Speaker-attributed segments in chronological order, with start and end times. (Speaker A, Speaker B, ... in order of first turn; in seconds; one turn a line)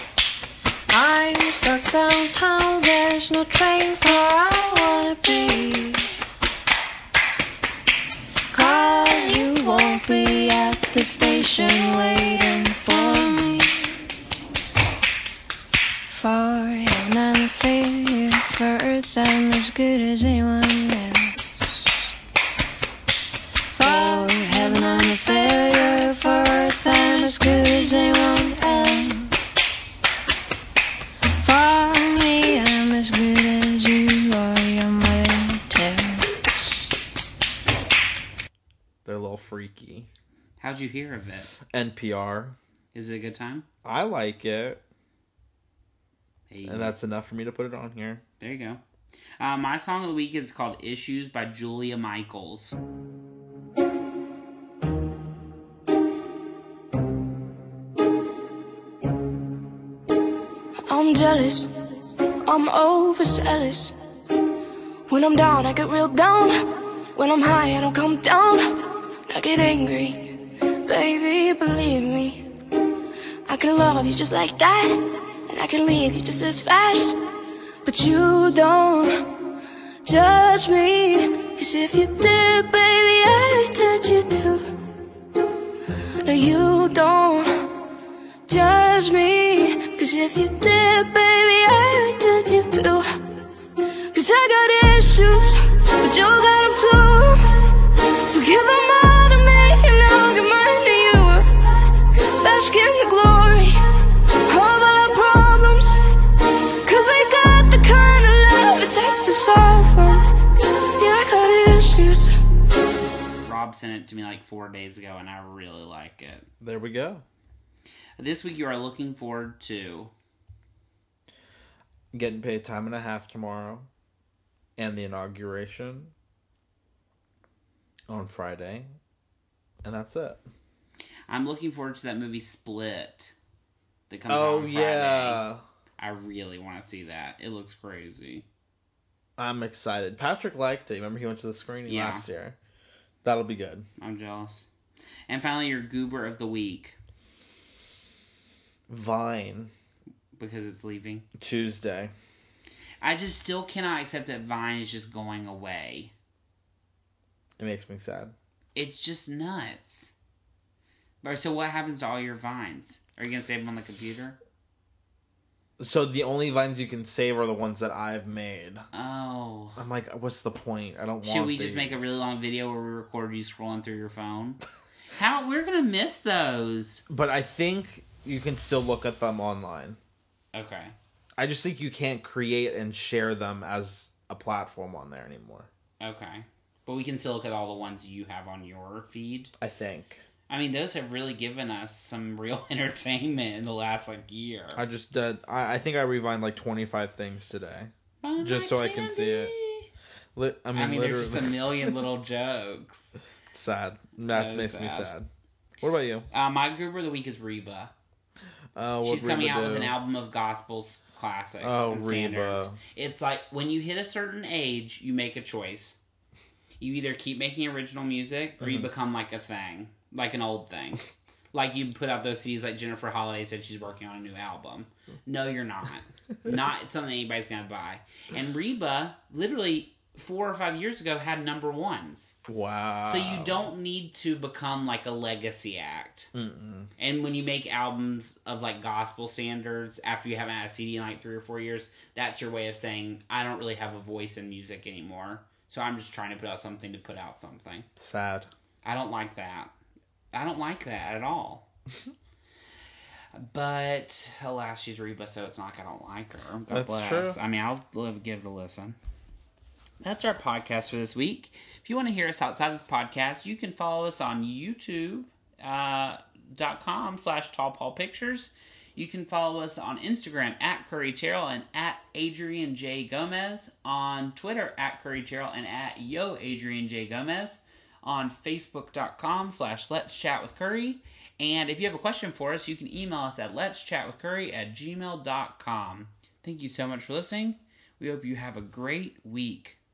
Speaker A: 0.9-6.1
Speaker A: 8.5-13.9
Speaker A: 16.1-21.7
Speaker A: 23.7-29.4
Speaker A: 31.4-36.7
Speaker B: 39.0-40.1
Speaker C: 40.6-41.5
Speaker B: 41.7-42.6
Speaker C: 42.9-43.6
Speaker B: 43.8-44.8
Speaker C: 46.5-47.0
Speaker B: 46.6-48.2
Speaker C: 48.4-48.8
Speaker C: 49.4-52.8
Speaker D: 60.9-61.7
Speaker D: 62.5-63.9
Speaker D: 65.1-66.5
Speaker D: 67.2-68.6
Speaker D: 69.3-70.3
Speaker D: 70.8-72.4
Speaker D: 73.5-77.2
Speaker D: 77.8-79.1
Speaker D: 80.0-84.6
Speaker D: 86.2-87.5
Speaker D: 88.5-93.0
Speaker D: 94.1-97.4
Speaker D: 98.3-101.4
Speaker D: 102.4-103.7
Speaker D: 104.5-106.0
Speaker D: 106.8-110.2
Speaker D: 111.0-112.2
Speaker C: 113.4-116.5
Speaker B: 116.6-117.2
Speaker C: 118.2-120.1
Speaker B: 122.1-123.9
Speaker B: 124.8-126.1
Speaker B: 128.1-128.9
Speaker B: 129.8-130.4
Speaker C: 131.3-133.3
Speaker C: 134.1-135.4
Speaker B: 134.3-135.6
Speaker C: 136.0-138.4
Speaker B: 139.4-142.6
Speaker C: 141.8-142.2
Speaker B: 143.2-143.9
Speaker C: 144.0-144.7
Speaker C: 145.3-147.0
Speaker B: 148.9-149.7
Speaker C: 150.3-151.2
Speaker B: 151.4-152.1
Speaker C: 153.0-156.1
Speaker B: 157.6-158.3
Speaker C: 158.7-160.1
Speaker C: 161.2-164.4
Speaker B: 165.8-168.8
Speaker C: 168.9-169.8
Speaker B: 169.8-172.2
Speaker C: 171.2-174.6
Speaker C: 175.2-177.0
Speaker B: 177.1-180.0
Speaker C: 180.5-180.9
Speaker B: 181.4-185.7
Speaker C: 186.0-189.5
Speaker B: 189.6-190.2
Speaker C: 190.5-194.8
Speaker B: 194.7-199.5
Speaker C: 198.2-199.9
Speaker B: 200.3-202.0
Speaker C: 200.7-203.2
Speaker B: 203.5-205.3
Speaker C: 204.2-205.1
Speaker B: 205.8-206.3
Speaker C: 206.3-207.9
Speaker B: 208.7-209.9
Speaker C: 209.0-216.0
Speaker B: 211.6-212.8
Speaker C: 216.8-232.3
Speaker B: 218.6-218.9
Speaker B: 232.4-233.7
Speaker C: 233.0-236.3
Speaker B: 236.3-236.9
Speaker C: 237.0-247.9
Speaker B: 248.0-248.5
Speaker C: 248.8-249.7
Speaker C: 250.3-251.7
Speaker C: 253.3-259.0
Speaker B: 256.7-257.4
Speaker C: 260.0-289.8